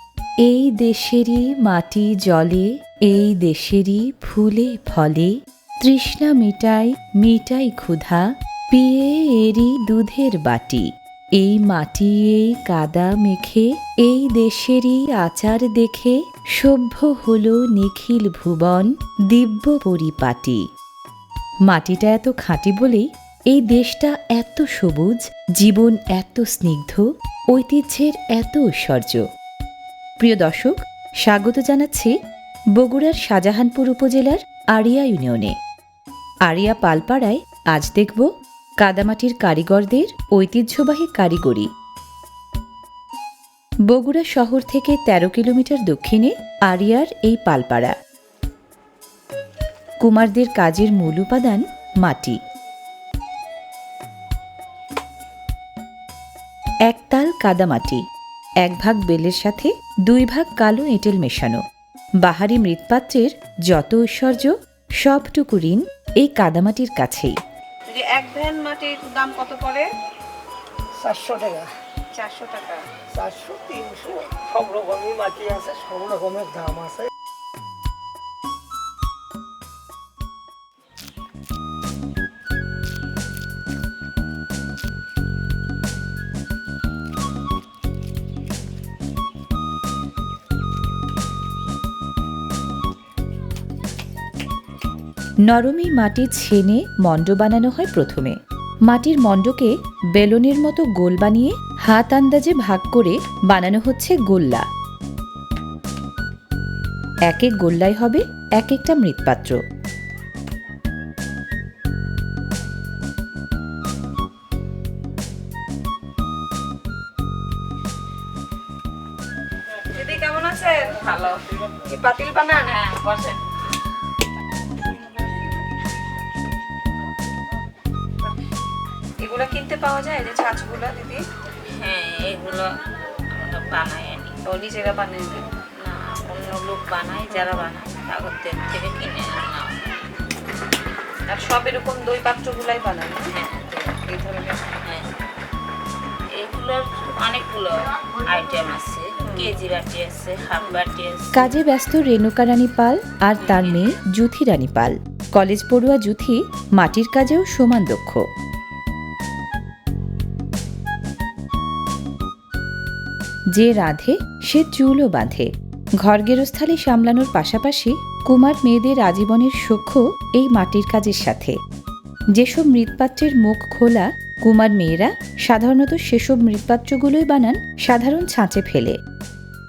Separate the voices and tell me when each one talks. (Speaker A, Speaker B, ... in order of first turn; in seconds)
Speaker A: 0.4-20.6, 21.7-29.2, 30.2-30.7, 31.2-32.1, 32.8-35.5, 36.5-38.3, 38.8-41.7, 43.9-47.9, 50.0-52.4, 56.9-58.0, 58.6-61.6, 62.2-67.3, 95.5-98.4, 98.9-104.6, 107.3-109.6, 151.3-158.2, 163.6-165.5, 166.0-171.6, 172.3-179.0
Speaker B: 67.9-69.9, 72.2-72.8, 119.8-123.3, 129.2-131.2, 134.4-135.6, 137.3-137.7, 141.3-144.7, 149.2-149.6
Speaker C: 71.0-71.6, 73.2-77.0
Speaker D: 131.8-132.7, 133.3-134.4, 135.8-139.7, 143.4-143.8, 146.3-151.5